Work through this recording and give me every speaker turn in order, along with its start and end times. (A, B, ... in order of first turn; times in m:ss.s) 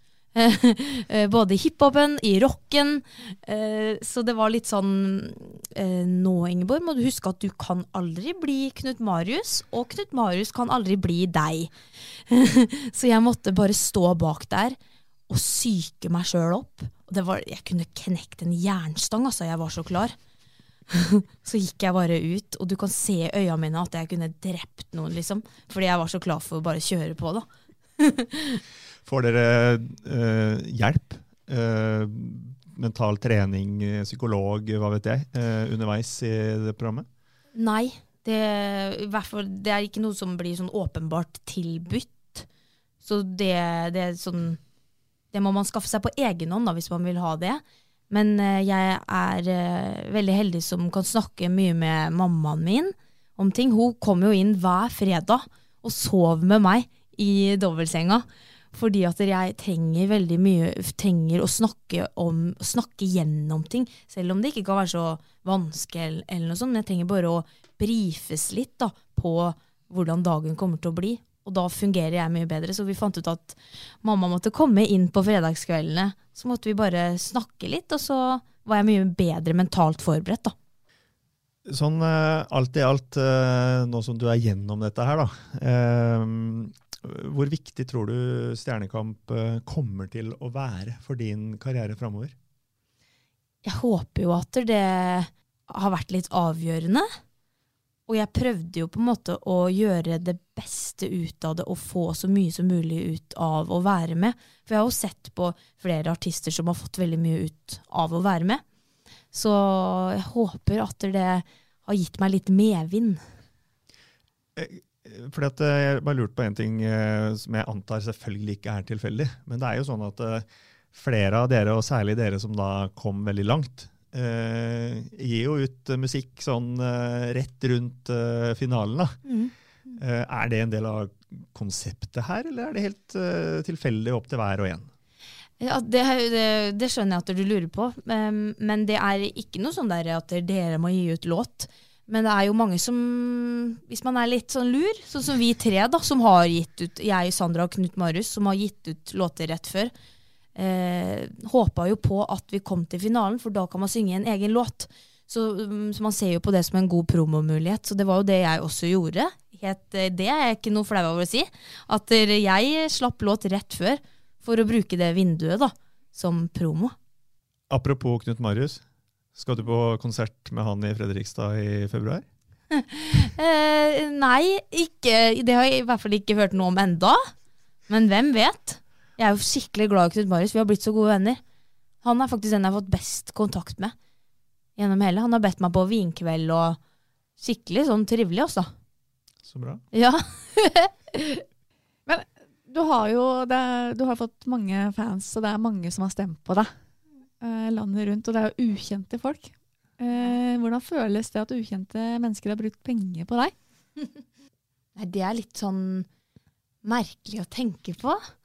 0:00.3-0:11.7 A
0:12.3-0:14.8 A
0:15.3-0:20.1 A
0:20.9-0:27.5 A
0:28.0-0:28.6 A
0:29.0-0:37.1 B
0:37.5-0:42.5 A
0:43.0-0:44.6 A
0:45.3-1:20.5 A
1:21.6-1:32.3 B
1:33.6-1:37.1 A
1:38.1-1:48.6 A
1:49.3-1:53.2 A
1:54.6-2:09.2 B
2:09.2-2:09.5 A
2:10.0-2:14.9 B
2:15.6-2:29.9 A
2:30.6-2:46.9 A
2:47.7-2:48.8 B
2:49.3-2:52.2 B
2:52.7-2:57.2 A
2:57.9-3:01.4 A
3:02.0-3:03.9 A
3:04.8-3:06.8 A
3:07.4-3:08.7 A
3:09.4-3:09.8 B
3:09.9-3:11.4 A
3:12.1-3:16.7 C
3:17.4-3:23.5 C
3:25.0-3:26.1 A
3:26.8-3:28.2 A